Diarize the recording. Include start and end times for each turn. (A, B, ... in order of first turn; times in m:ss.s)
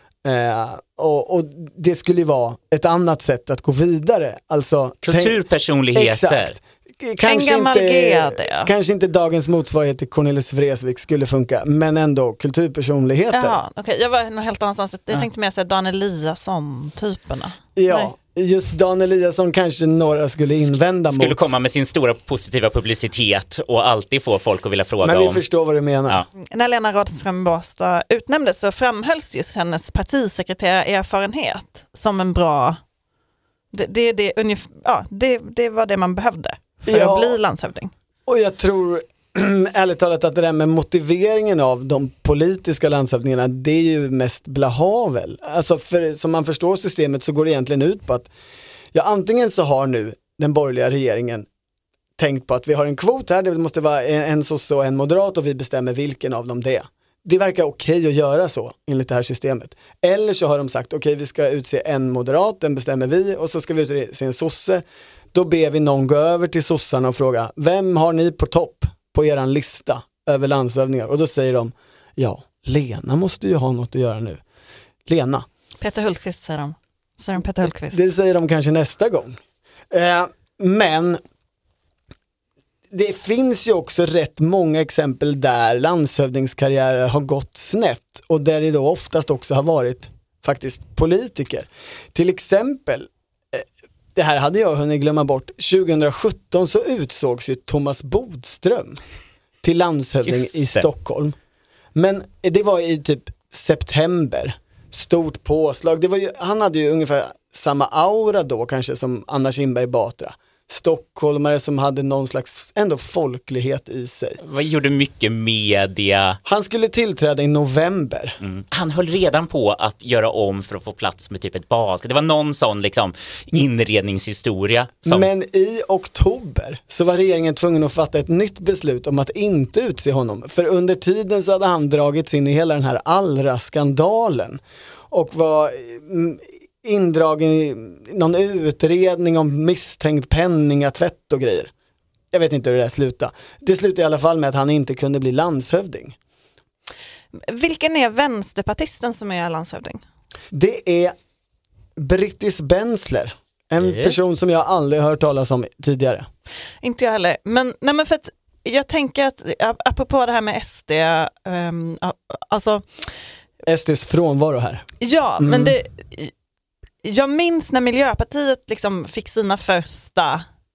0:00.2-0:05.4 A
0:05.0-0:06.6 B
0:05.9-0:13.6 A
0:07.2-0:08.7 C
0:13.3-0:18.1 C
0:17.8-0:21.5 A
0:20.6-0:25.4 B
0:25.0-0:26.2 A
0:26.4-0:32.8 C
0:33.7-0:37.9 C
0:36.9-0:37.4 A
0:38.3-0:48.3 A
0:48.9-0:51.5 A
0:52.2-1:14.4 A
1:15.1-1:15.5 A
1:15.8-1:18.0 C
1:17.8-1:19.4 A
1:19.9-1:21.2 A
1:22.9-1:39.0 A
1:39.6-1:41.4 A
1:40.3-1:40.9 B
1:42.0-1:54.4 A
1:54.4-1:56.4 B
1:56.4-1:58.4 A
1:58.4-2:05.3 B
2:05.0-2:14.6 A
2:15.1-2:21.7 A
2:22.3-2:26.2 A
2:27.5-2:30.0 C
2:30.5-2:31.2 A
2:32.0-2:36.3 A
2:33.8-2:34.2 B
2:36.8-2:43.1 C
2:43.7-2:44.9 A
2:45.0-2:46.3 C
2:45.4-2:45.8 A
2:47.0-2:50.4 C